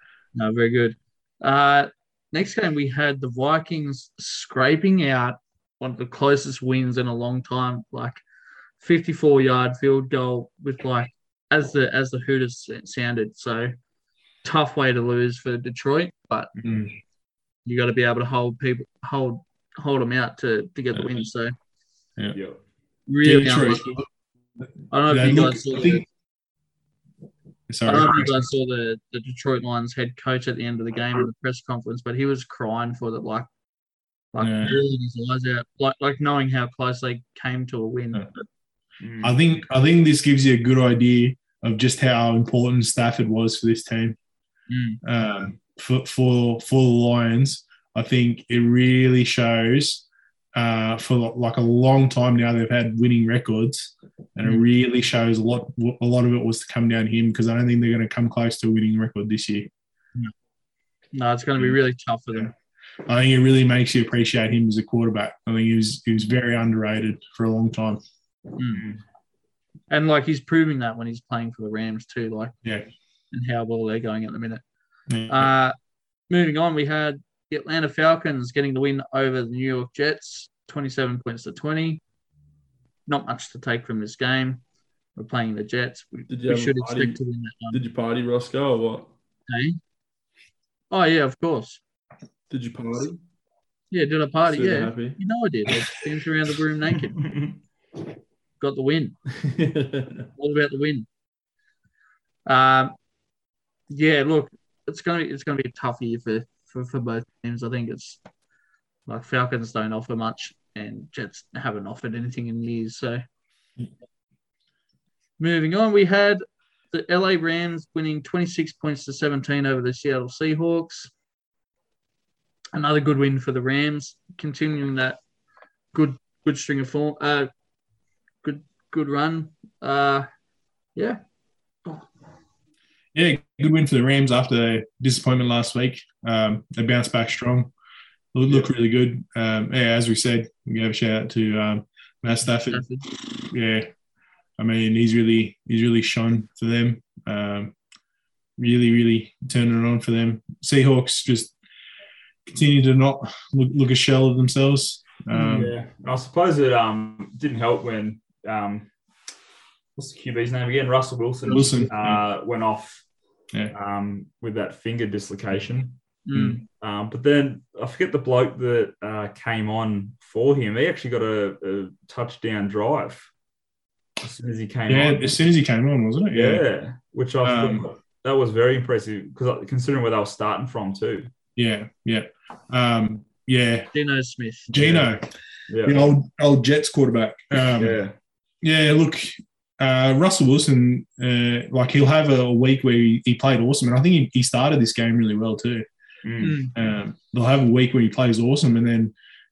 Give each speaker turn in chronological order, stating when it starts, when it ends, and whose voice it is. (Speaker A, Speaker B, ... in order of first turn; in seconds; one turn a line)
Speaker A: 0.4-8.2
Speaker A: 8.8-13.7
Speaker A: 14.4-16.5
Speaker B: 16.6-16.9
Speaker A: 17.6-21.5
Speaker C: 22.3-22.6
Speaker A: 23.1-24.0
Speaker B: 23.2-24.1
Speaker A: 24.9-26.0
Speaker B: 25.1-26.0
Speaker B: 27.7-28.4
Speaker A: 27.9-33.5
Speaker A: 34.3-38.2
Speaker B: 34.4-34.8
Speaker C: 39.0-39.4
Speaker B: 39.2-44.2
Speaker A: 44.7-45.0
Speaker B: 45.0-59.7
Speaker A: 61.1-62.5
Speaker B: 63.1-68.0
Speaker A: 68.6-68.8
Speaker C: 68.8-69.0
Speaker A: 69.9-72.5
Speaker A: 73.3-74.6
Speaker B: 75.1-75.5
Speaker A: 75.3-75.8
Speaker A: 76.3-82.0
Speaker A: 83.1-84.6
Speaker A: 85.2-87.8
Speaker D: 86.3-87.2
Speaker D: 87.7-89.1
Speaker A: 89.5-89.8
Speaker A: 90.9-91.8
Speaker D: 92.5-93.2
Speaker A: 93.9-97.2
Speaker D: 94.5-95.2
Speaker C: 97.2-97.5
Speaker A: 98.6-99.2
Speaker D: 99.4-100.3
Speaker A: 100.4-101.1
Speaker A: 102.5-103.0
Speaker A: 103.9-108.2
Speaker A: 109.1-113.2
Speaker A: 115.4-121.1
Speaker A: 122.7-125.2
Speaker A: 125.9-127.5
Speaker A: 128.4-130.3
Speaker A: 130.9-131.2
Speaker B: 133.1-137.7
Speaker B: 138.3-143.9
Speaker A: 142.6-143.1
Speaker B: 144.6-147.7
Speaker B: 148.6-151.5
Speaker B: 152.5-155.7
Speaker A: 155.3-155.7
Speaker C: 155.5-158.9
Speaker C: 160.0-163.0
Speaker B: 161.5-162.2
Speaker A: 161.5-161.9
Speaker C: 163.7-166.0
Speaker A: 166.3-166.6
Speaker B: 166.3-166.6
Speaker C: 166.6-173.3
Speaker C: 174.2-175.3
Speaker B: 174.9-176.6
Speaker C: 176.3-181.3
Speaker B: 177.4-177.9
Speaker B: 181.6-183.9
Speaker A: 183.9-184.7
Speaker B: 184.7-185.3
Speaker C: 184.8-185.1
Speaker C: 185.7-186.1
Speaker B: 185.8-188.0
Speaker C: 187.5-188.1
Speaker B: 188.6-195.9
Speaker C: 196.2-196.6
Speaker A: 196.4-196.7
Speaker B: 196.7-199.1